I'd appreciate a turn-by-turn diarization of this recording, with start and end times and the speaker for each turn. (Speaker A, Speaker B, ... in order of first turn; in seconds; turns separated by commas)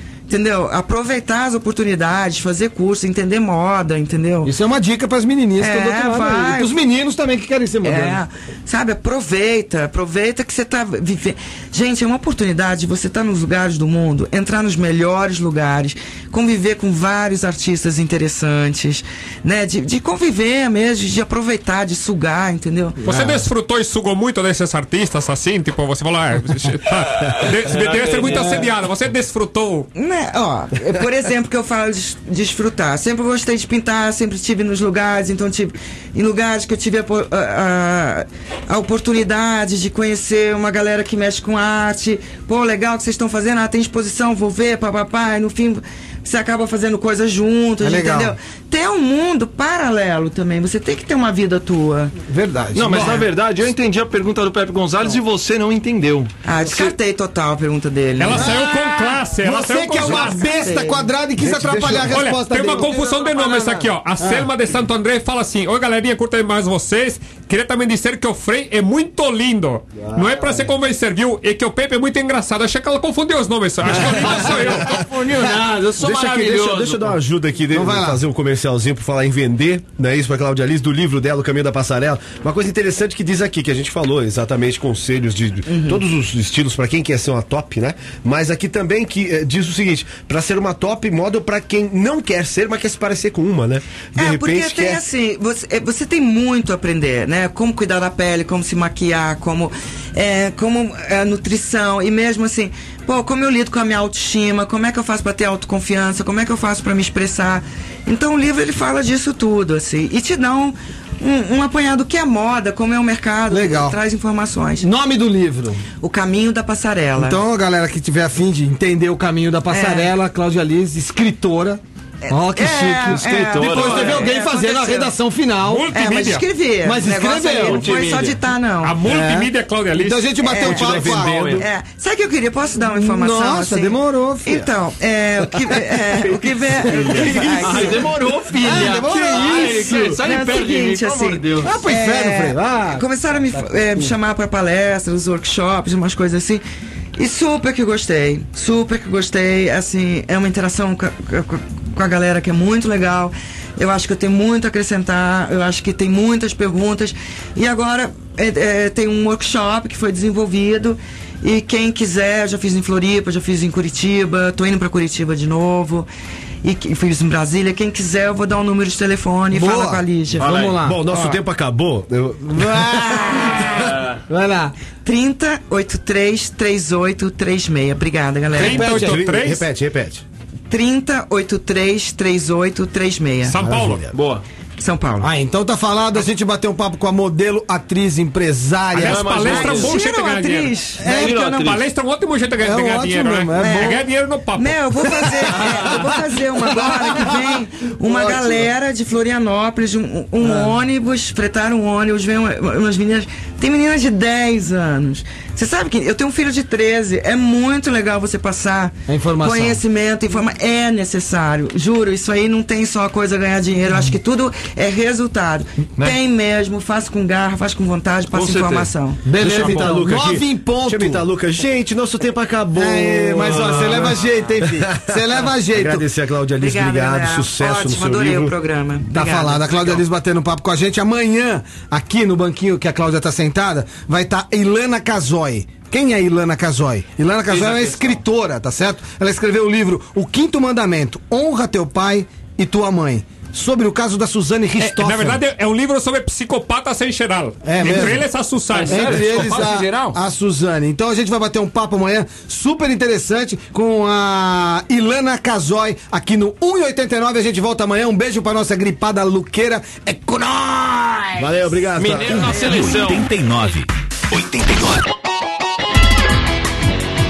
Speaker A: 0.3-4.5, Speaker B: 4.5-8.2, Speaker A: 5.6-6.8, Speaker A: 7.8-23.0, Speaker B: 23.0-23.4, Speaker C: 23.1-29.9, Speaker D: 27.7-28.7, Speaker B: 28.2-28.6, Speaker A: 30.0-52.1, Speaker B: 47.8-48.4, Speaker B: 52.3-53.3, Speaker D: 52.7-56.3, Speaker A: 56.4-58.6, Speaker C: 58.2-60.5, Speaker B: 58.3-63.6, Speaker A: 60.0-61.1, Speaker C: 61.5-75.1, Speaker D: 62.8-63.7, Speaker B: 64.2-64.5, Speaker D: 74.0-77.2, Speaker E: 76.0-95.0, Speaker B: 77.7-78.2, Speaker A: 85.7-86.0, Speaker A: 94.2-114.9, Speaker B: 113.5-114.0, Speaker B: 114.8-115.8, Speaker A: 116.0-117.4, Speaker B: 117.2-126.0, Speaker A: 119.7-120.1, Speaker A: 122.2-125.1, Speaker D: 123.2-124.3, Speaker C: 125.7-126.5, Speaker A: 125.9-129.1, Speaker B: 126.8-127.9, Speaker D: 127.6-128.4, Speaker C: 128.8-130.3, Speaker B: 129.0-131.7, Speaker A: 130.4-138.1, Speaker D: 130.6-131.6, Speaker B: 132.9-134.7, Speaker B: 135.7-140.2, Speaker D: 136.9-141.8, Speaker A: 139.2-146.6, Speaker B: 141.6-144.1, Speaker A: 147.2-166.1, Speaker A: 166.6-170.6, Speaker B: 169.5-171.1, Speaker D: 170.4-170.8, Speaker E: 170.8-173.5, Speaker A: 171.1-171.4, Speaker B: 172.7-173.7, Speaker A: 173.1-173.8, Speaker D: 173.8-174.2, Speaker B: 174.3-174.7, Speaker A: 175.0-178.9, Speaker B: 178.6-179.2, Speaker C: 178.6-179.7, Speaker E: 178.8-180.2, Speaker A: 180.7-183.6, Speaker C: 183.5-184.1, Speaker E: 183.6-184.1, Speaker D: 184.1-184.4, Speaker A: 184.8-185.3, Speaker B: 185.2-189.5, Speaker D: 188.9-189.9, Speaker C: 188.9-190.8, Speaker A: 189.4-191.7, Speaker B: 191.0-191.3, Speaker D: 191.1-191.8, Speaker C: 191.3-195.7, Speaker B: 192.6-194.1, Speaker A: 193.6-194.0, Speaker A: 194.5-219.2, Speaker B: 195.5-198.7, Speaker B: 200.4-200.7, Speaker B: 209.1-209.8, Speaker D: 218.3-220.0, Speaker B: 219.3-221.3, Speaker E: 219.4-228.6, Speaker B: 222.8-226.1, Speaker D: 223.6-224.0, Speaker A: 226.6-230.0, Speaker B: 229.1-245.4, Speaker D: 237.5-238.2, Speaker C: 244.8-249.4, Speaker B: 247.6-248.3, Speaker D: 247.8-248.1, Speaker D: 248.7-250.2, Speaker B: 248.9-261.5, Speaker E: 261.4-262.6, Speaker D: 262.0-263.3, Speaker F: 262.3-265.1